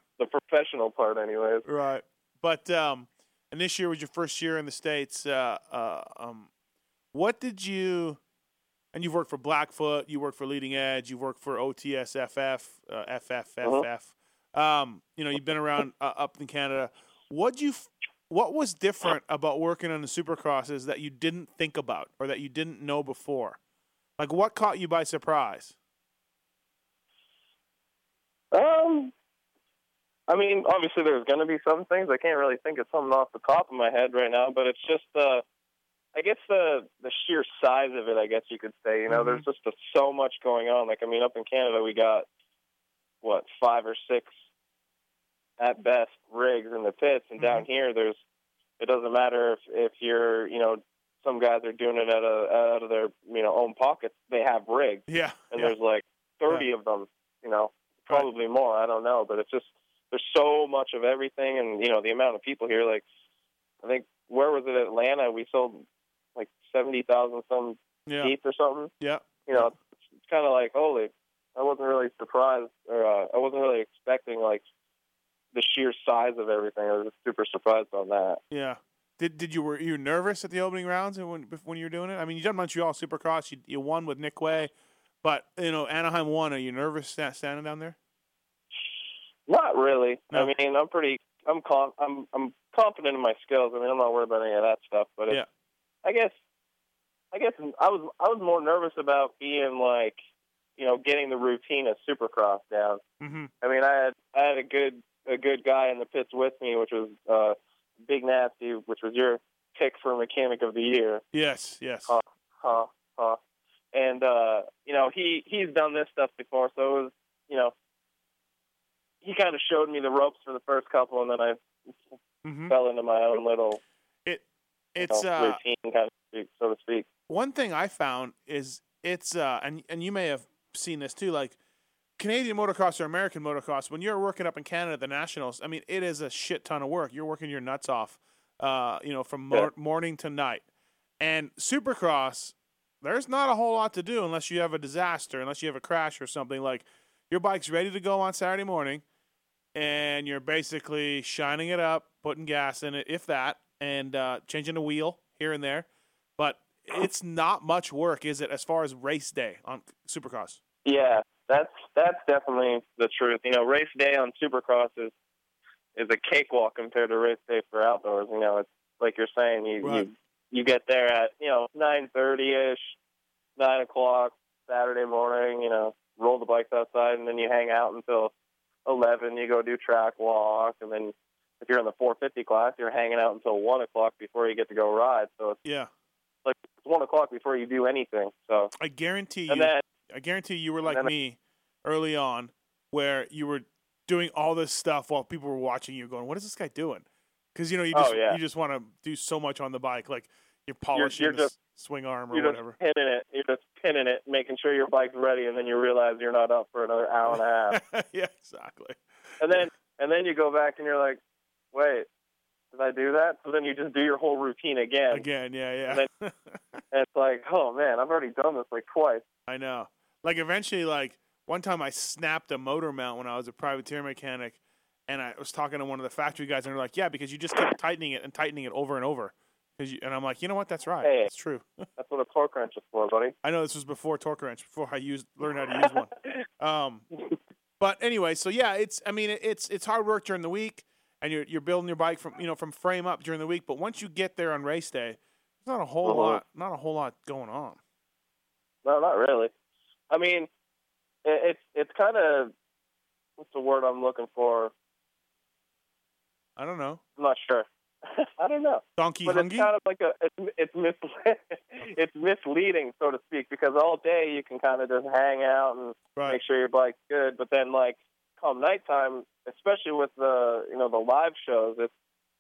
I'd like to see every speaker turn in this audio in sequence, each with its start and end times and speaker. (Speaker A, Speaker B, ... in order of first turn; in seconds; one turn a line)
Speaker A: 0.2-1.6
Speaker B: 1.6-6.5
Speaker B: 7.1-8.2
Speaker B: 8.9-23.6
Speaker B: 24.2-25.7
Speaker A: 28.5-29.1
Speaker A: 30.3-35.4
Speaker A: 36.1-42.2
Speaker B: 39.1-39.4
Speaker A: 43.2-44.3
Speaker A: 45.6-48.2
Speaker B: 47.4-47.6
Speaker A: 48.8-63.0
Speaker B: 55.1-55.7
Speaker A: 63.8-65.8
Speaker A: 66.3-68.9
Speaker B: 68.0-68.3
Speaker B: 69.0-69.7
Speaker A: 69.5-69.8
Speaker A: 70.3-74.6
Speaker A: 75.5-78.4
Speaker B: 78.5-84.7
Speaker B: 85.2-88.0
Speaker A: 89.5-95.4
Speaker A: 96.0-96.3
Speaker A: 97.3-100.2
Speaker A: 100.8-103.0
Speaker B: 103.2-103.5
Speaker A: 103.6-111.2
Speaker B: 111.3-112.2
Speaker A: 112.1-113.4
Speaker A: 113.9-117.7
Speaker A: 119.2-121.6
Speaker B: 122.4-122.7
Speaker A: 122.7-123.8
Speaker B: 124.2-125.6
Speaker A: 125.0-127.1
Speaker B: 127.3-131.6
Speaker B: 132.2-140.6
Speaker B: 141.2-149.0
Speaker B: 149.7-155.9
Speaker B: 156.4-160.6
Speaker A: 160.8-165.1
Speaker A: 165.9-172.9
Speaker A: 173.6-178.3
Speaker A: 178.8-185.6
Speaker B: 185.6-185.9
Speaker A: 186.4-188.7
Speaker B: 188.8-202.8
Speaker A: 189.5-189.8
Speaker A: 190.8-191.1
Speaker A: 197.9-198.4
Speaker A: 200.9-201.5
Speaker A: 202.3-207.8
Speaker B: 207.3-209.0
Speaker A: 209.4-211.2
Speaker A: 211.7-212.1
Speaker A: 212.7-215.3
Speaker B: 215.1-216.8
Speaker A: 216.9-219.2
Speaker B: 219.5-231.8
Speaker A: 231.0-231.3
Speaker A: 232.0-233.3
Speaker B: 233.4-237.1
Speaker B: 237.8-247.8
Speaker A: 246.0-246.4
Speaker A: 248.8-249.5
Speaker A: 250.1-250.5
Speaker A: 251.2-252.5
Speaker A: 253.4-254.7
Speaker B: 256.6-257.0
Speaker A: 257.2-271.9
Speaker B: 259.0-259.7